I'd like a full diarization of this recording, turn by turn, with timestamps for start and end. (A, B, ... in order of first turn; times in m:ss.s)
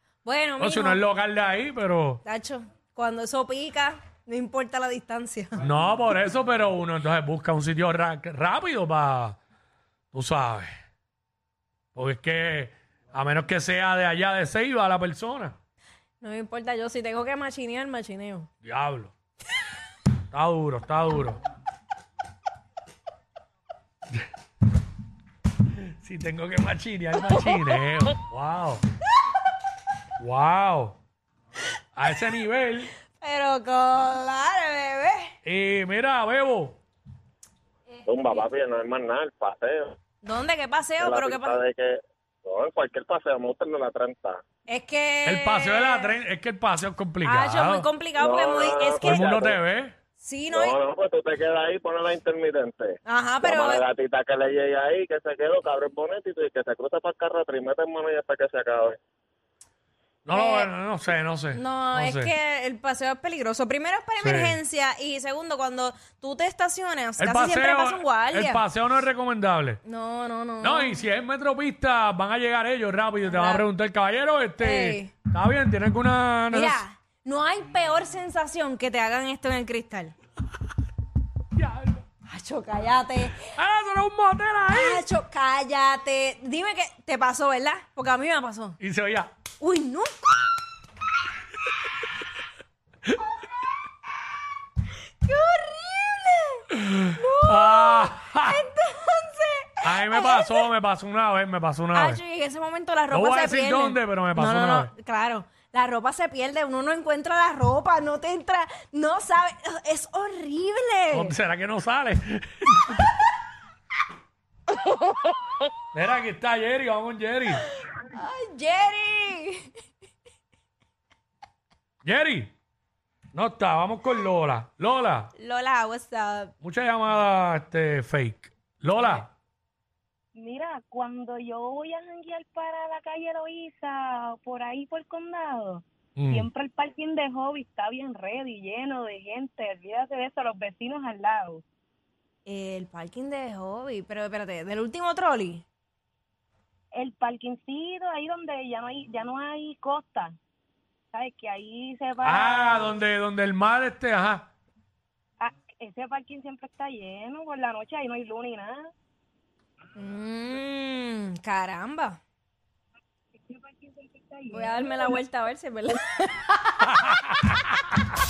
0:00.2-0:01.0 A
0:00.6-0:02.2 B
0:02.2-0:05.6 A
0:05.6-0:09.4 B
0:10.1-0:10.7 B
0:11.9-0:15.5 B
0:16.2-0:18.5 A
0:18.6-0:19.1 B
0:20.3-0:21.4 B
0:25.7-0:28.8 B
0:30.2-0:31.0 B
0:32.0-0:32.9 B
0:33.1-0:35.3 A
0:35.4-0:36.8 B
0:38.0-0:39.9 C
0:38.1-0:38.4 A
0:40.2-0:41.6 A
0:41.0-0:44.4 C
0:44.7-0:46.2 A
0:45.2-0:47.9 B
0:47.2-0:49.3 A
0:48.2-0:49.6 C
0:49.0-0:49.9 B
0:50.2-0:50.8 A
0:50.5-0:59.0 C
0:53.0-0:53.8 A
1:00.2-1:02.3 B
1:00.3-1:00.7 A
1:01.5-1:08.6 A
1:04.2-1:04.6 B
1:07.2-1:09.8 B
1:09.8-1:11.0 A
1:10.6-1:16.8 B
1:13.2-1:13.6 A
1:14.6-1:15.1 A
1:16.5-1:20.1 A
1:21.6-1:22.0 B
1:22.2-1:23.4 A
1:23.4-1:25.0 B
1:24.7-1:28.8 A
1:28.8-1:29.3 B
1:29.6-1:30.1 A
1:35.2-1:40.7 A
1:36.9-1:38.6 B
1:39.8-1:42.2 B
1:41.9-1:51.4 A
1:43.1-1:44.9 B
1:51.1-1:53.1 B
1:55.9-1:57.6 B
1:58.0-1:59.7 A
2:02.0-2:02.5 B
2:03.3-2:05.3 B
2:05.4-2:06.5 A
2:06.6-2:09.3 B
2:10.3-2:21.6 D
2:16.2-2:16.5 B
2:22.4-2:25.6 A
2:26.9-2:30.3 D
2:31.1-2:33.0 D
2:32.2-2:34.5 B
2:35.4-2:38.9 D
2:40.0-2:42.2 A
2:43.4-2:45.2 D
2:44.5-2:46.9 A